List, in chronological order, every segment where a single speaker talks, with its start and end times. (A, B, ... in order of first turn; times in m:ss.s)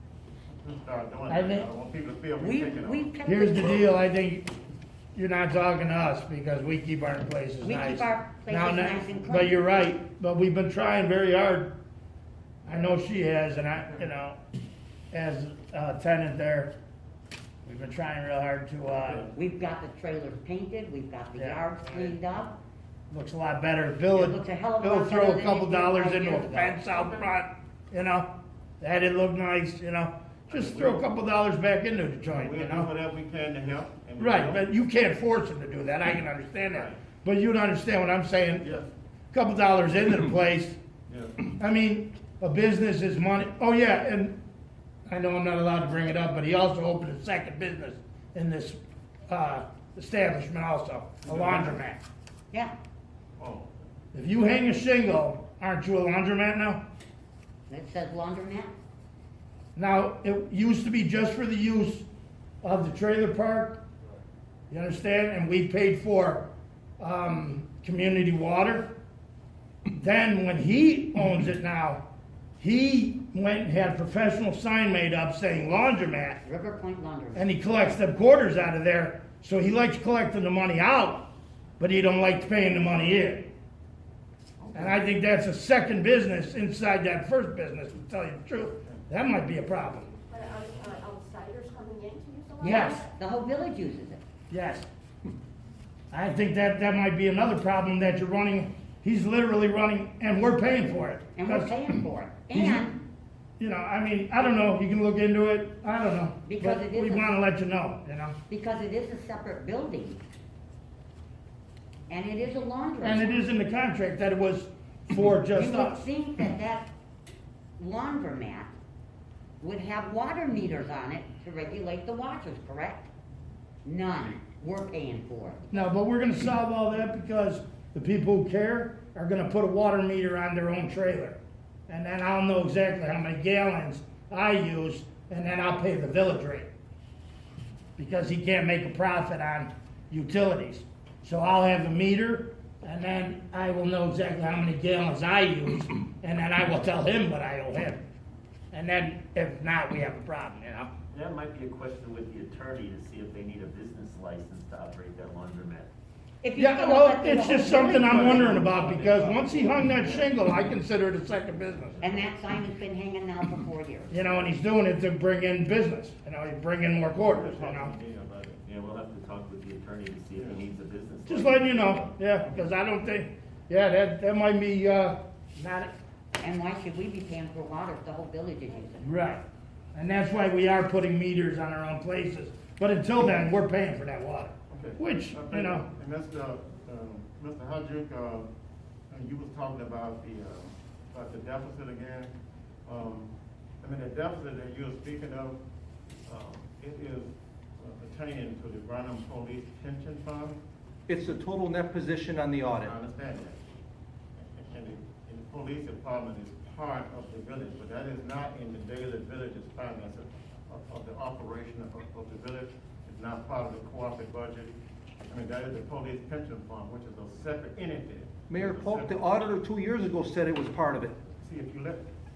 0:00.6-0:03.1 A
0:01.3-0:01.6 B
0:02.4-0:03.9 C
0:03.2-0:04.5 B
0:05.1-0:11.7 B
0:07.6-0:09.6 C
0:12.6-0:14.4 B
0:15.1-0:16.7 B
0:17.6-0:19.3 B
0:19.1-0:22.5 C
0:21.4-0:22.2 B
0:23.1-0:28.3 B
0:24.1-0:26.8 C
0:28.8-0:32.9 B
0:30.5-0:31.1 A
0:32.3-0:34.7 A
0:34.2-0:38.6 B
0:36.7-0:37.0 A
0:38.6-0:38.9 A
0:39.3-0:40.8 B
0:41.1-0:41.5 A
0:41.4-0:44.4 B
0:45.0-0:52.0 B
0:51.2-0:51.8 A
0:53.4-0:53.9 A
0:54.1-0:56.8 B
0:57.7-0:58.7 C
0:59.7-1:02.1 B
1:02.6-1:03.8 B
1:04.7-1:06.5 B
1:07.0-1:08.9 B
1:09.9-1:12.0 B
1:12.6-1:16.4 B
1:16.4-1:17.5 C
1:17.3-1:21.3 B
1:21.8-1:23.5 B
1:24.6-1:25.0 A
1:24.7-1:30.1 B
1:30.3-1:33.1 D
1:30.3-1:31.1 A
1:32.6-1:33.0 B
1:32.6-1:34.2 C
1:34.5-1:34.9 B
1:36.1-1:42.9 B
1:41.3-1:43.0 C
1:43.6-1:48.3 B
1:46.4-1:47.3 C
1:48.5-1:50.2 C
1:52.1-1:53.4 C
1:53.0-1:56.1 B
1:55.5-1:56.9 C
1:57.8-1:58.7 C
1:59.6-2:03.1 C
2:03.8-2:05.6 C
2:05.7-2:11.4 B
2:11.9-2:16.7 B
2:18.0-2:28.0 B
2:28.7-2:30.9 B
2:31.1-2:35.9 E
2:36.4-2:38.6 C
2:36.6-2:42.0 B
2:37.7-2:40.5 E
2:41.8-2:42.3 E
2:42.0-2:44.1 C
2:44.1-2:47.9 B
2:47.1-2:48.6 A
2:48.6-2:52.6 E
2:50.3-2:50.6 A
2:51.2-2:55.9 B
2:56.4-2:59.1 C
2:59.0-2:59.4 B
2:59.9-3:05.9 B
3:04.7-3:08.5 A
3:09.1-3:12.3 A
3:12.8-3:15.6 A
3:16.3-3:20.6 A
3:21.1-3:22.9 F
3:22.8-3:23.6 A
3:24.4-3:39.2 A
3:38.5-3:41.1 F
3:41.4-3:42.1 A